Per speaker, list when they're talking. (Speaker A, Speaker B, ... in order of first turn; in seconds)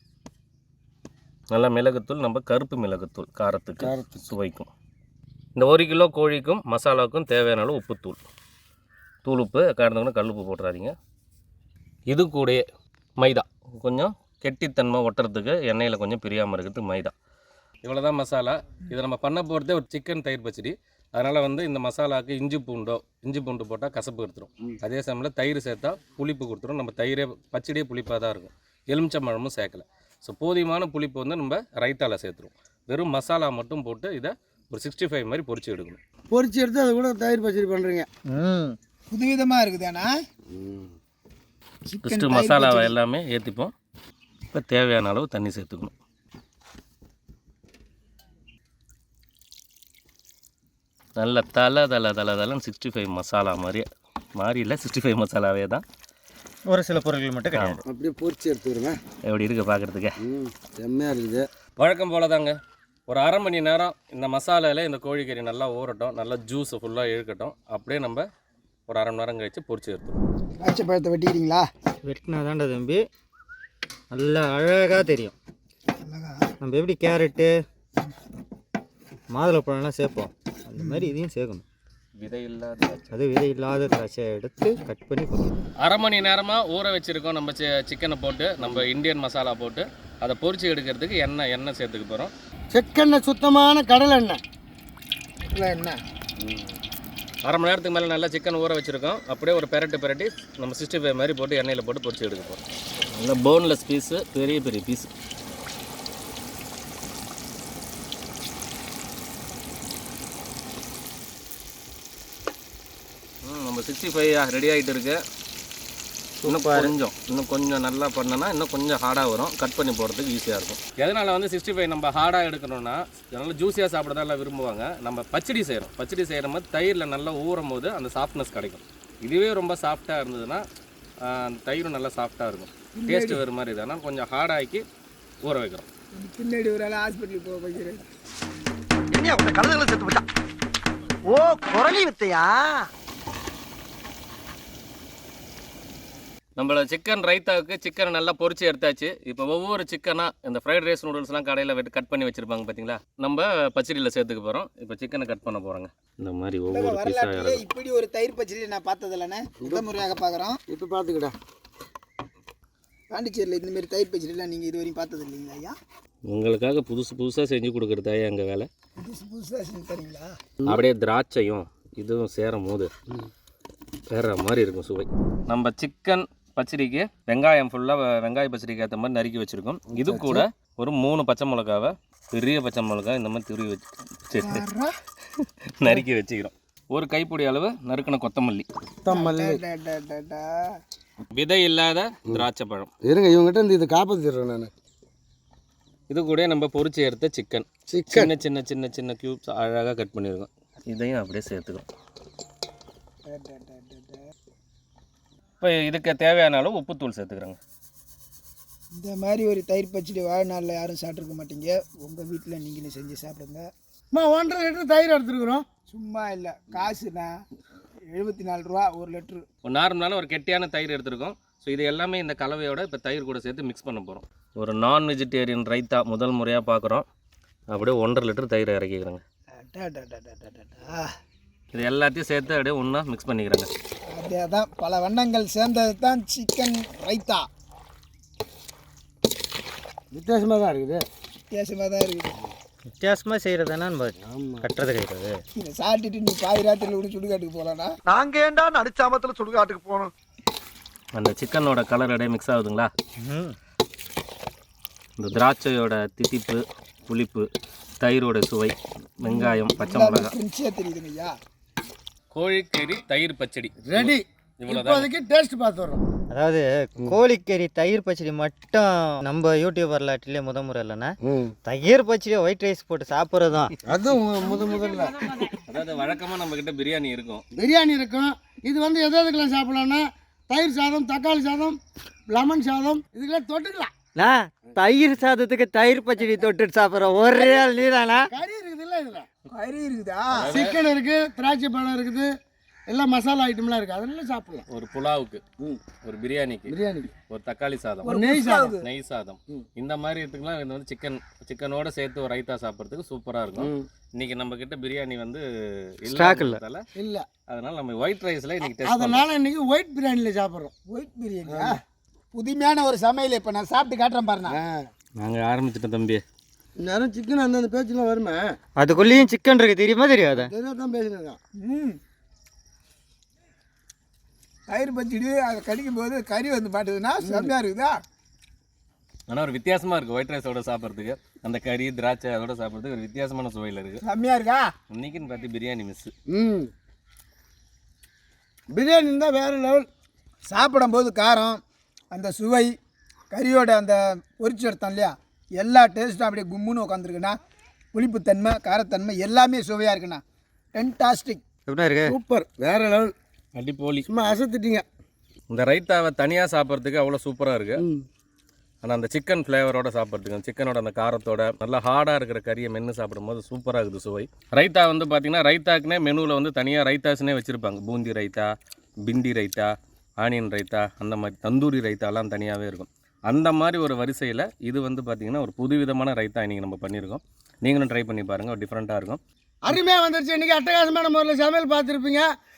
Speaker A: 1.5-4.7, 5.5-8.2, 9.2-10.9, 12.1-12.6, 13.2-17.1, 17.8-36.0, 42.0-43.7, 44.5-45.9, 51.2-55.8, 57.5-57.8, 59.2-60.1, 61.8-62.5, 63.1-68.2, 68.9-70.2, 82.2-83.1, 85.8-92.3, 97.4-102.6, 103.1-105.1, 113.4-115.2, 116.4-130.6, 131.2-134.8, 135.4-135.8, 146.6-157.6, 166.3-168.7, 170.7-172.9, 174.1-184.6, 185.8-188.7, 191.3-192.9, 196.1-201.8, 205.6-207.6, 219.6-227.0, 227.7-229.2, 231.7-233.7, 251.1-252.9, 255.2-257.5, 258.0-260.3, 262.3-265.1, 275.7-277.4, 290.3-290.8, 294.7-295.4, 296.0-296.7, 297.3-298.2, 298.8-306.8, 307.5-309.2, 315.2-316.2, 329.3-334.0, 334.9-336.1, 353.5-354.1, 355.5-357.8, 358.8-368.5, 369.0-379.2
Speaker B: 3.8-4.3, 36.3-38.1, 40.5-40.9, 57.9-59.0, 60.2-61.5, 92.7-94.4, 96.4-96.7, 160.7-161.3, 179.9-180.4, 189.0-189.6, 193.0-194.7, 197.9-198.3, 214.1-215.6, 240.1-241.0, 244.2-244.7, 263.9-266.0, 271.2-271.5, 273.9-275.5, 277.5-281.8, 282.3-283.9, 287.2-287.8, 288.3-289.3, 290.5-292.3, 292.9-294.6, 296.7-297.1, 298.1-298.8, 303.6-303.9, 306.9-307.3, 308.8-310.7, 311.5-311.8, 314.5-314.9, 316.8-318.4, 320.3-321.4, 327.2-327.5, 336.3-336.7, 338.7-339.9, 352.1-353.1, 354.0-354.8, 379.6-382.3
Speaker C: 38.3-38.8, 56.7-57.8, 72.0-73.0, 74.1-75.3, 76.6-77.5, 79.3-81.6, 83.1-85.6, 116.4-116.9, 242.9-245.4, 253.2-253.6, 266.3-273.7, 284.1-288.2, 306.1-306.6, 318.8-320.5, 351.7-352.1
Speaker D: 39.1-40.1, 41.9-42.9, 70.6-71.6, 76.0-76.5, 80.8-81.1, 95.5-96.0, 132.9-133.4, 136.2-138.0, 156.7-160.6, 163.1-165.7, 169.0-170.3, 184.4-184.9, 189.1-190.4, 203.3-204.2, 208.9-213.7, 215.9-217.3, 218.1-219.4, 229.6-231.1, 234.1-237.4, 241.5-242.3, 245.5-247.9, 259.2-261.3, 289.5-290.6, 298.0-298.8, 310.9-311.8, 312.3-314.6, 321.6-322.0, 324.7-327.9, 334.0-334.7, 340.5-341.6, 342.1-342.7, 343.3-347.3, 347.9-350.2, 350.7-351.4
Speaker E: 139.1-140.2, 141.3-142.9, 248.1-250.1